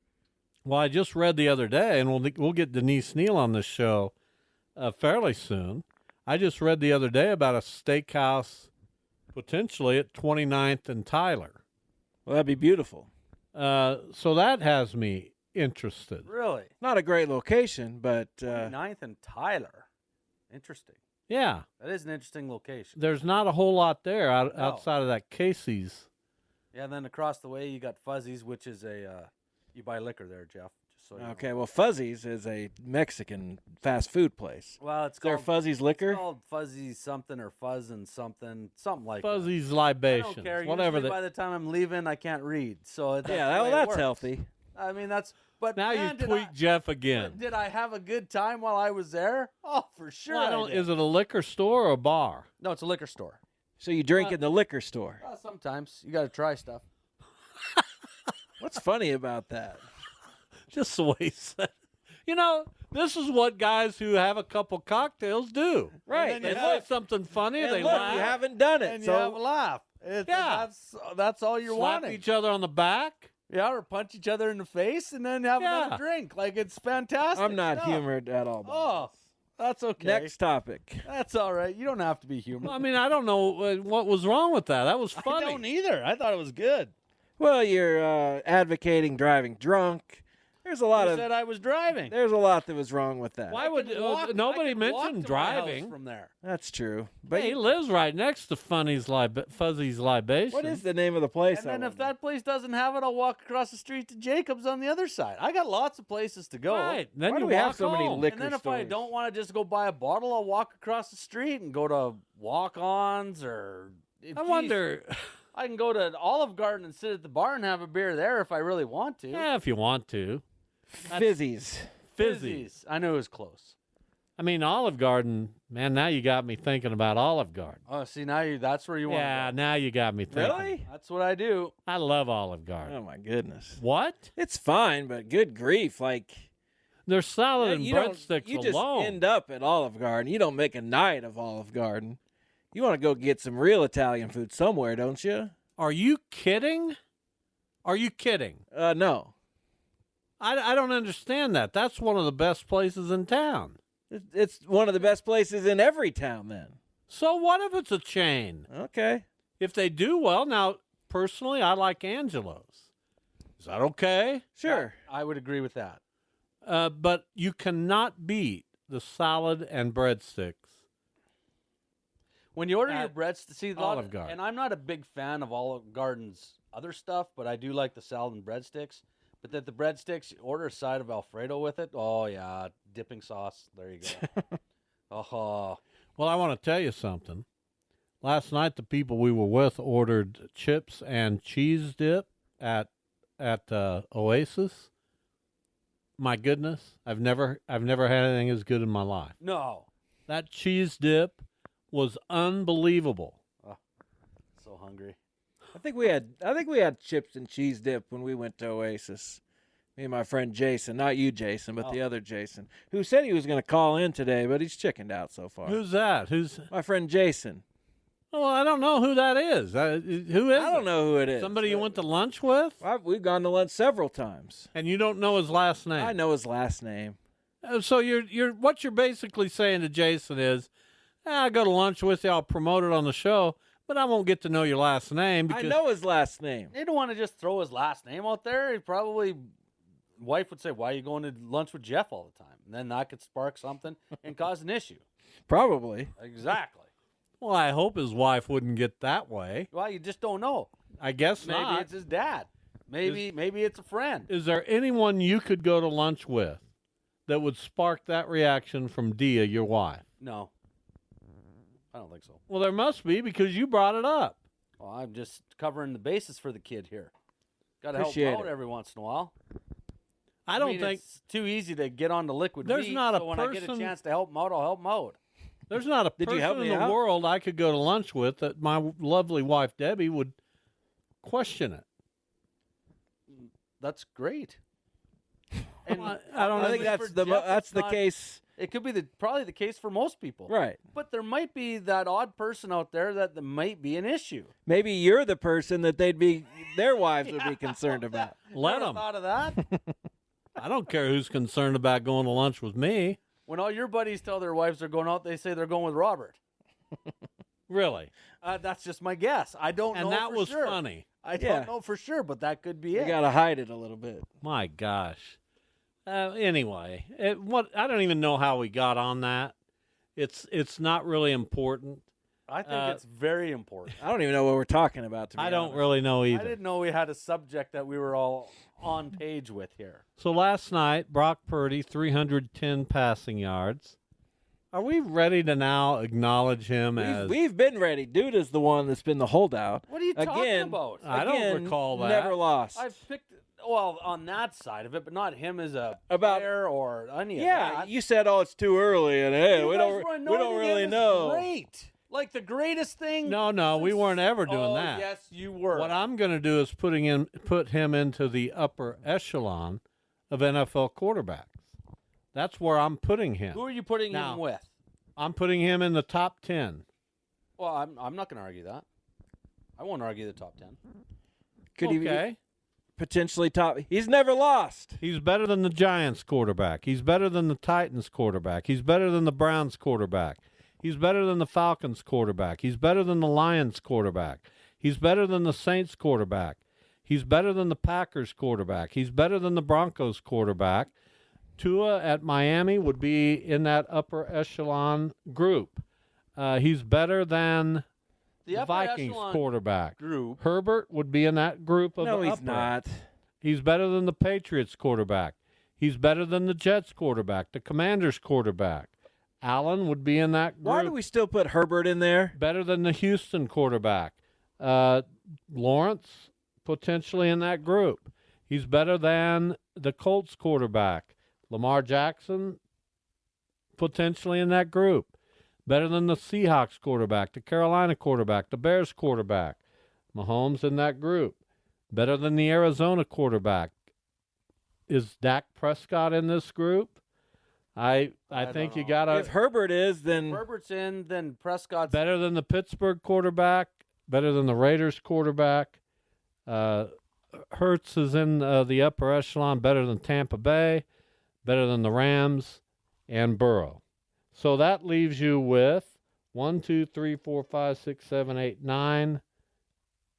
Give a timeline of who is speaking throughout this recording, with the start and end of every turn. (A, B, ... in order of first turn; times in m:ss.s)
0:00.6-0:04.1 A
0:04.8-0:08.7 A
0:09.3-0:11.6 A
0:12.2-0:13.1 B
0:13.5-0:16.3 A
0:16.2-0:16.7 C
0:16.8-0:18.7 B
0:18.5-0:19.9 C
0:20.5-0:21.0 C
0:21.3-0:21.6 A
0:21.8-0:23.0 C
0:23.0-0:26.1 A
0:24.5-0:24.8 C
0:26.7-0:31.5 C
0:31.2-0:36.2 B
0:34.8-0:39.5 C
0:39.2-0:41.2 A
0:40.1-0:44.1 C
0:43.2-0:44.5 B
0:44.7-0:46.5 C
0:45.8-0:47.4 A
0:47.1-0:50.9 C
0:50.3-0:52.5 A
0:52.6-0:53.4 C
0:53.8-0:55.2 B
0:55.2-0:56.8 C
0:58.6-0:59.8 B
1:00.7-1:01.7 A
1:02.2-1:08.3 A
1:06.1-1:06.9 B
1:06.1-1:06.8 C
1:07.6-1:09.4 B
1:07.8-1:12.2 C
1:10.3-1:10.7 A
1:11.7-1:13.3 A
1:13.5-1:18.0 C
1:15.6-1:16.0 A
1:17.3-1:19.2 B
1:18.6-1:20.3 C
1:20.0-1:21.0 B
1:21.0-1:22.8 C
1:22.6-1:25.6 A
1:25.2-1:26.9 C
1:27.4-1:31.3 B
1:30.9-1:32.1 C
1:32.1-1:33.6 B
1:33.5-1:35.9 A
1:33.5-1:36.3 C
1:36.4-1:37.6 B
1:37.3-1:40.8 A
1:40.5-1:42.1 B
1:41.5-1:47.1 C
1:46.7-1:48.2 A
1:47.2-1:49.0 B
1:48.3-1:54.8 C
1:54.3-1:55.3 A
1:55.5-1:59.5 C
1:59.3-2:00.4 A
2:00.9-2:01.9 B
2:02.1-2:02.6 A
2:02.2-2:03.7 C
2:04.4-2:07.8 A
2:07.9-2:09.5 C
2:09.1-2:10.8 A
2:10.3-2:10.8 B
2:10.9-2:11.7 C
2:11.9-2:13.0 A
2:12.8-2:13.8 B
2:13.8-2:14.3 A
2:14.4-2:16.4 B
2:17.1-2:19.2 A
2:17.6-2:22.2 B
2:22.7-2:25.5 B
2:25.8-2:27.0 A
2:27.8-2:28.6 A
2:28.7-2:29.3 B
2:30.4-2:33.8 A
2:34.1-2:36.8 B
2:37.1-2:38.7 A
2:38.7-2:39.2 B
2:39.6-2:42.8 A
2:43.6-2:44.4 A
2:44.6-2:44.9 B
2:44.6-2:46.0 C
2:46.6-2:50.7 A
2:52.5-3:04.3 C
2:52.9-2:53.1 A
2:53.8-2:54.4 A
3:04.1-3:04.4 B
3:05.1-3:05.8 C
3:06.2-3:07.4 A
3:08.2-3:14.9 A
3:16.2-3:19.4 A
3:19.4-3:19.9 C
3:20.3-3:23.4 A
3:24.6-3:25.2 C
3:25.7-3:29.4 B
3:30.0-3:35.8 B
3:35.6-3:36.7 A
3:36.7-3:37.6 B
3:38.3-3:42.8 A
3:40.5-3:41.9 B
3:42.8-3:44.7 B
3:44.7-3:46.2 A
3:46.0-3:47.2 B
3:47.6-3:50.7 A
3:51.2-3:55.8 A
3:55.5-3:56.7 B
3:56.7-3:59.5 C
4:00.2-4:05.0 C
4:05.5-4:06.1 B
4:06.2-4:06.9 C
4:07.4-4:09.7 A
4:09.7-4:10.7 C
4:11.0-4:11.9 A
4:11.4-4:14.3 C
4:14.3-4:16.6 A
4:17.3-4:20.0 A
4:20.2-4:20.5 C
4:21.9-4:22.4 C
4:22.5-4:24.4 A
4:24.8-4:27.1 C
4:27.8-4:29.3 C
4:27.9-4:28.5 B
4:30.5-4:31.0 A
4:30.6-4:35.2 C
4:32.6-4:33.9 A
4:35.7-4:40.3 A
4:36.2-4:37.0 B
4:41.2-4:41.8 A
4:43.3-4:44.6 C
4:45.8-4:48.0 C
4:46.0-4:47.0 A
4:46.5-4:48.4 B
4:48.6-4:54.5 C
4:50.5-4:50.8 B
4:54.6-4:58.4 B
4:57.4-4:59.6 C
4:58.5-4:59.0 A
5:00.6-5:03.2 A
5:03.5-5:06.4 C
5:07.7-5:08.1 A
5:08.4-5:13.2 C
5:09.9-5:11.0 A
5:11.4-5:11.7 B
5:12.9-5:14.2 B
5:14.4-5:15.4 A
5:16.0-5:19.5 A
5:20.2-5:22.0 A
5:22.5-5:24.0 C
5:22.6-5:23.0 A
5:24.0-5:25.8 B
5:25.4-5:26.6 A
5:26.3-5:30.0 C
5:30.2-5:34.0 A
5:34.7-5:37.4 A
5:37.0-5:42.9 B
5:39.9-5:41.0 C
5:41.0-5:42.4 A
5:42.7-5:47.9 C
5:46.1-5:46.5 B
5:47.3-5:51.5 B
5:49.5-5:56.0 C
5:53.2-5:55.0 A
5:55.7-6:01.5 A
6:02.3-6:04.4 A
6:03.5-6:04.7 C
6:05.2-6:06.8 A
6:07.6-6:08.8 C
6:09.8-6:10.8 C
6:11.8-6:12.2 B
6:11.8-6:12.4 A
6:13.0-6:15.0 B
6:15.0-6:30.9 A
6:31.6-6:35.8 A
6:36.4-6:37.8 A
6:38.4-6:40.4 C
6:38.5-6:42.7 A
6:42.0-6:43.0 B
6:43.4-6:48.9 A
6:49.4-6:51.0 A
6:50.6-6:52.4 B
6:52.3-7:02.6 A
7:03.8-7:05.1 A
7:05.6-7:09.6 A
7:10.1-7:11.4 A
7:11.9-7:13.7 A
7:14.9-7:17.0 A
7:17.8-7:19.3 A
7:18.3-7:19.0 C
7:19.1-7:20.4 B
7:20.2-7:22.0 C
7:21.9-7:25.8 A
7:26.5-7:30.8 A
7:31.4-7:33.8 A
7:34.3-7:39.2 A